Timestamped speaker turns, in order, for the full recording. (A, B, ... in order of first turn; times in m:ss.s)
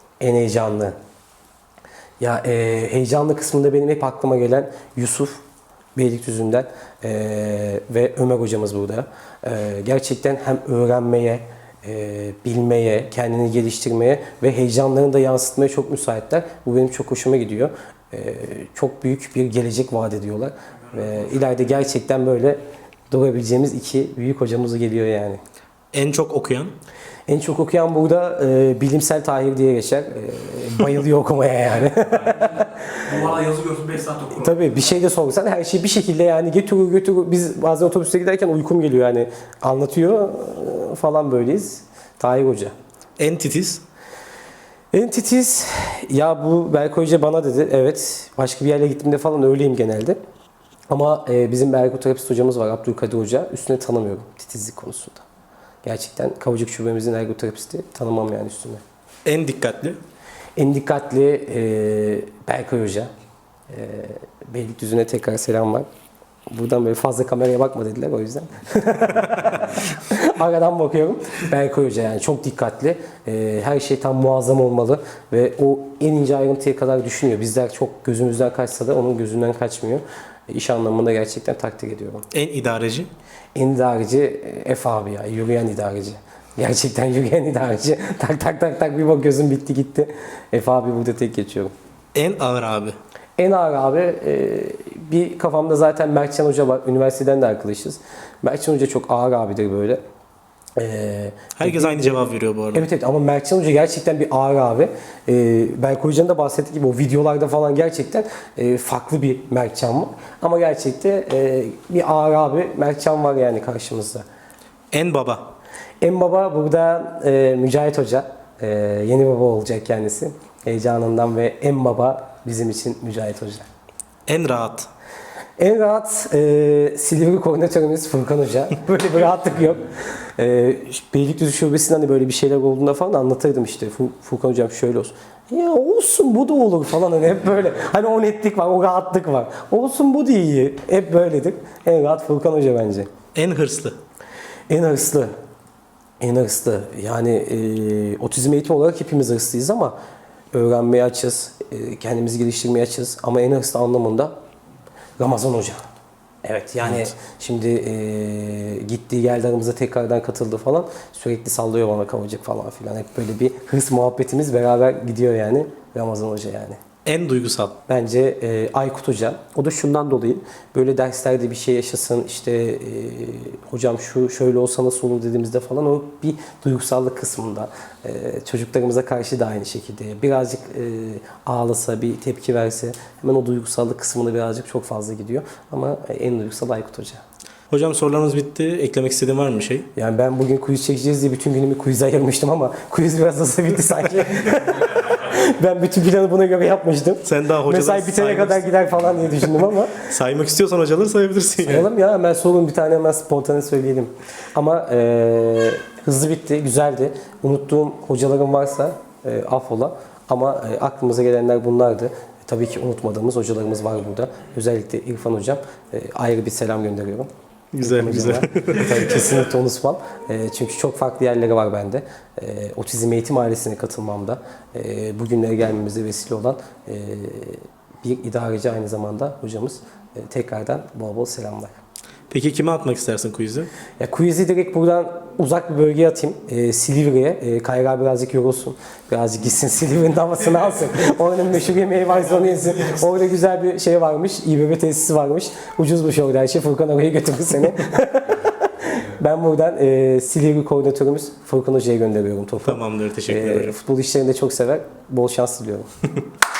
0:00.2-0:00.9 A
0:02.2-0:05.4 A
0:06.0-0:22.6 A
0:23.1-0:25.4 A
0:25.9-0:26.7 B
0:27.3-0:33.4 A
0:32.3-0:34.5 C
0:34.2-0:42.7 A
0:43.2-0:43.8 B
0:44.9-0:50.2 A
0:50.9-0:55.2 A
0:55.8-0:58.8 A
0:59.2-1:00.0 B
1:00.6-1:03.1 A
1:03.7-1:05.9 A
1:06.5-1:22.3 A
1:22.3-1:23.1 B
1:23.6-1:31.7 A
1:32.1-1:33.0 B
1:33.4-1:40.0 A
1:40.8-1:54.2 A
1:41.6-1:42.9 B
1:54.9-1:55.5 B
1:56.0-2:03.7 A
2:04.3-2:04.9 B
2:05.6-2:23.1 A
2:23.3-2:24.0 B
2:24.7-2:25.3 A
2:26.2-2:30.0 A
2:30.5-2:34.3 A
2:35.2-2:35.8 A
2:36.4-2:46.8 A
2:47.0-2:47.8 B
2:47.9-3:07.2 A
3:07.7-3:09.9 B
3:10.0-3:20.0 A
3:17.2-3:18.7 B
3:20.1-3:21.9 B
3:21.6-3:37.3 A
3:37.7-3:39.0 B
3:37.8-3:51.8 A
3:52.3-3:53.7 B
3:54.0-4:15.9 A
4:12.7-4:13.8 B